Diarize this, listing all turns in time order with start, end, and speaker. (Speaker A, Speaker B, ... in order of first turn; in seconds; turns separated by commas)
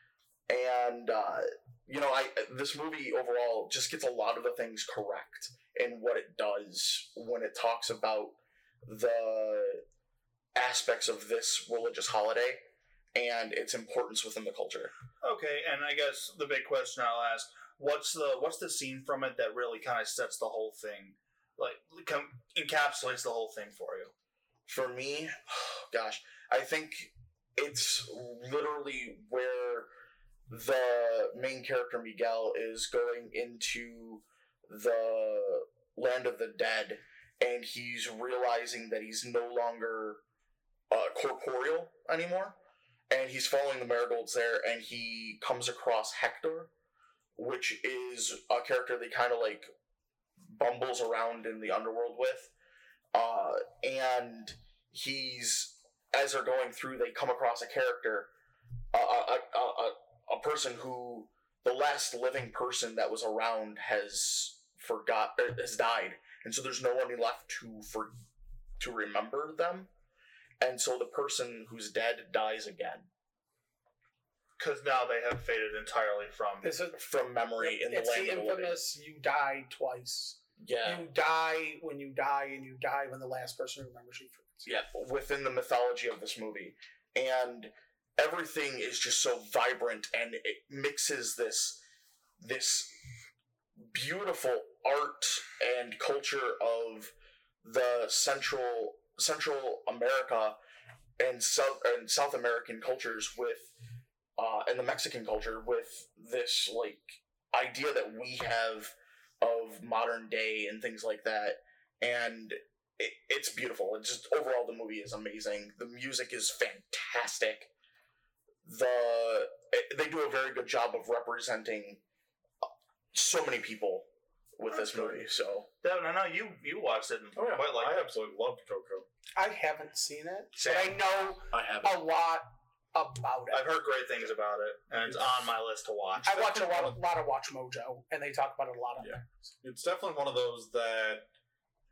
Speaker A: 0.5-9.8, Speaker A: 10.6-12.6, Speaker A: 13.1-14.9, Speaker B: 15.2-24.1, Speaker A: 24.7-29.9, Speaker A: 30.5-40.2, Speaker A: 40.9-42.6, Speaker A: 43.1-46.7, Speaker A: 47.4-49.7, Speaker A: 50.4-52.5, Speaker A: 53.1-58.3, Speaker A: 58.9-68.1, Speaker A: 68.8-69.9, Speaker A: 70.6-73.1, Speaker B: 74.6-76.8, Speaker C: 76.6-77.0, Speaker A: 77.0-78.8, Speaker C: 77.6-84.7, Speaker A: 80.6-81.0, Speaker A: 84.7-91.8, Speaker A: 92.4-93.0, Speaker A: 93.8-97.1, Speaker A: 97.6-100.6, Speaker A: 101.2-103.8, Speaker A: 104.4-117.7, Speaker A: 118.6-122.0, Speaker A: 123.1-125.7, Speaker B: 125.8-128.1, Speaker D: 127.4-129.1, Speaker C: 129.4-133.7, Speaker B: 130.6-131.0, Speaker A: 131.5-132.0, Speaker B: 133.5-136.3, Speaker D: 135.1-135.5, Speaker D: 136.2-137.0, Speaker C: 136.2-139.2, Speaker D: 139.0-141.3